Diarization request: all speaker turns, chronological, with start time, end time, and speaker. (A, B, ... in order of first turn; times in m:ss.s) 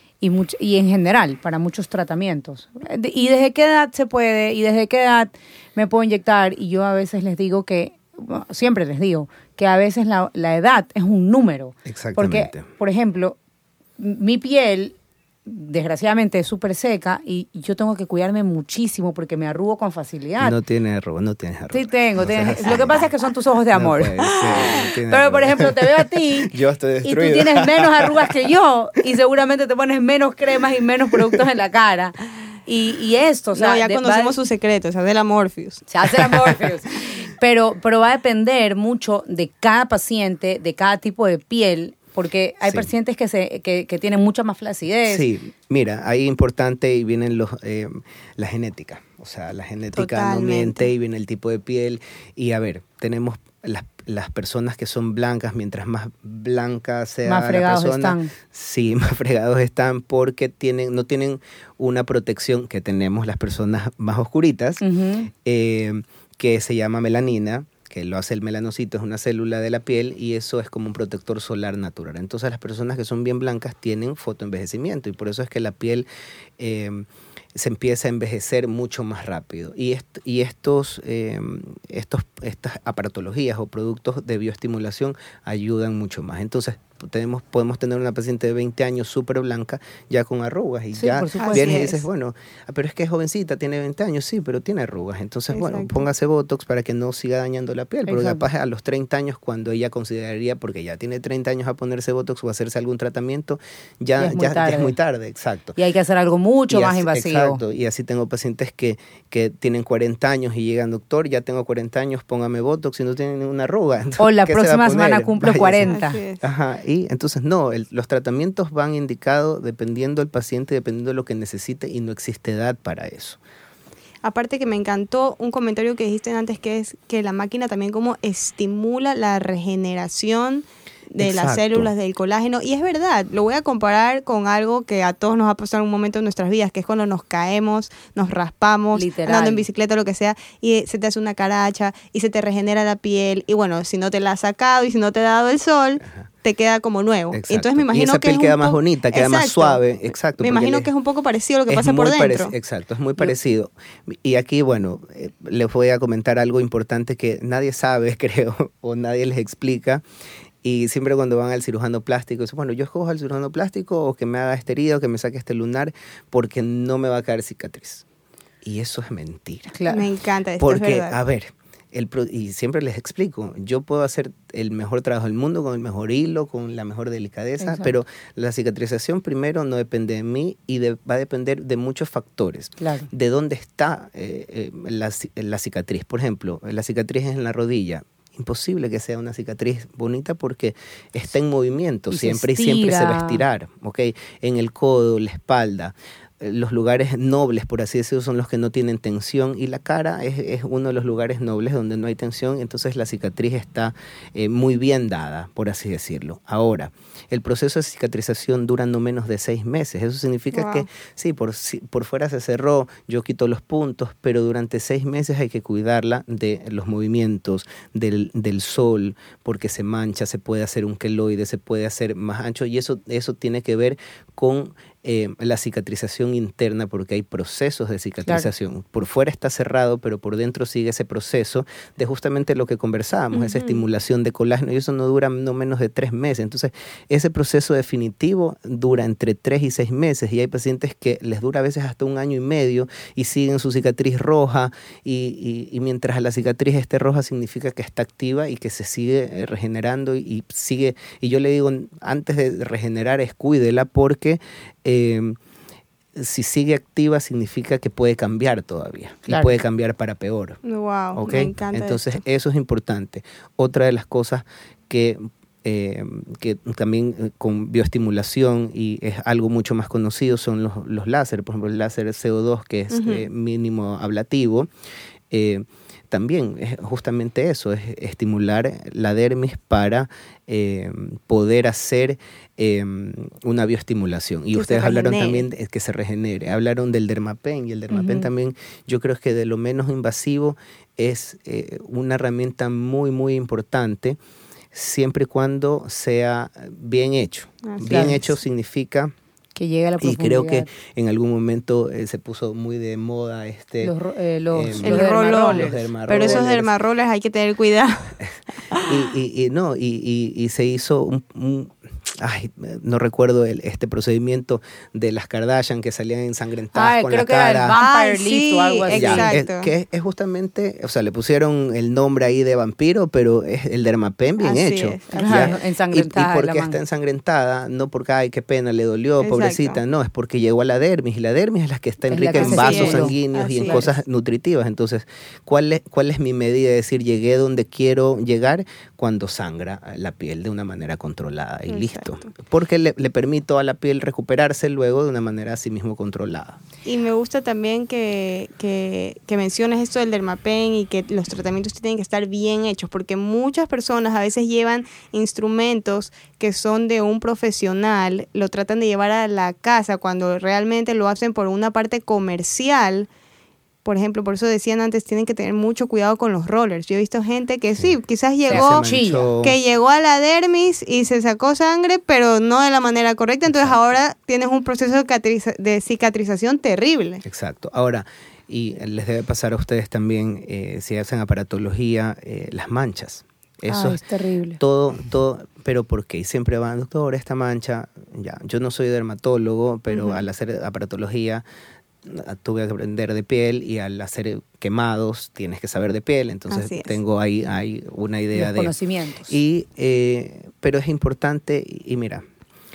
0:00.2-0:13.4 A
0:11.9-0:12.6 B
0:14.0-0:15.0 A
0:15.5-0:20.6 A
0:20.4-0:23.1 B
0:21.7-0:26.5 A
0:23.7-0:28.3 B
0:27.0-0:34.4 A
0:33.6-0:35.9 C
0:35.9-0:45.2 A
0:36.3-0:36.6 B
0:45.1-1:16.1 B
0:50.0-0:50.9 C
0:57.3-0:58.3 A
1:04.8-1:05.3 A
1:16.6-1:45.8 B
1:31.0-1:31.9 A
1:31.4-1:32.0 C
1:35.5-1:36.0 C
1:38.1-1:38.5 A
1:44.2-1:44.9 A
1:45.8-1:47.6 A
1:46.7-2:03.4 B
1:54.2-1:56.2 A
1:55.9-1:56.4 C
2:04.2-2:29.8 C
2:11.2-2:11.9 B
2:19.0-2:19.6 A
2:27.3-2:30.9 B
2:30.4-2:32.5 C
2:31.7-2:40.0 B
2:40.6-2:48.0 B
2:48.6-2:49.8 B
2:49.7-2:50.0 A
2:49.9-2:51.2 C
2:50.6-4:15.4 B
2:57.6-2:57.9 A
3:02.8-3:03.1 A
3:12.1-3:13.4 A
3:30.5-3:30.8 C
3:53.3-3:53.8 C
4:16.2-4:20.6 B
4:19.3-4:19.6 A
4:20.6-4:22.1 C
4:21.2-4:34.7 B
4:32.9-4:33.2 C
4:35.3-4:54.2 B
4:44.5-4:45.5 C
4:47.9-4:48.3 A
4:54.7-4:59.1 B
4:57.7-4:58.1 C
4:57.8-4:58.3 A
4:59.6-5:00.7 A
5:00.0-5:03.9 B
5:03.8-5:06.4 A
5:04.5-5:06.8 B
5:04.8-5:08.2 C
5:08.2-5:17.8 B
5:08.7-5:09.0 C
5:16.7-5:19.3 A
5:17.8-5:19.7 C
5:18.9-5:46.6 B
5:24.4-5:25.6 C
5:25.1-5:26.8 A
5:29.2-5:29.8 C
5:32.1-5:33.9 A
5:32.4-5:33.8 C
5:41.7-5:42.3 C
5:46.8-6:03.1 C
6:03.8-6:08.9 C
6:08.5-6:09.3 A
6:08.5-6:09.6 B
6:09.4-6:17.2 C
6:13.5-6:13.8 B
6:17.2-6:24.0 B
6:23.7-6:24.6 A
6:24.6-6:31.4 B
6:29.9-6:30.2 C
6:32.0-6:38.7 B
6:36.5-6:37.0 C
6:38.4-6:39.3 A
6:39.3-6:42.2 B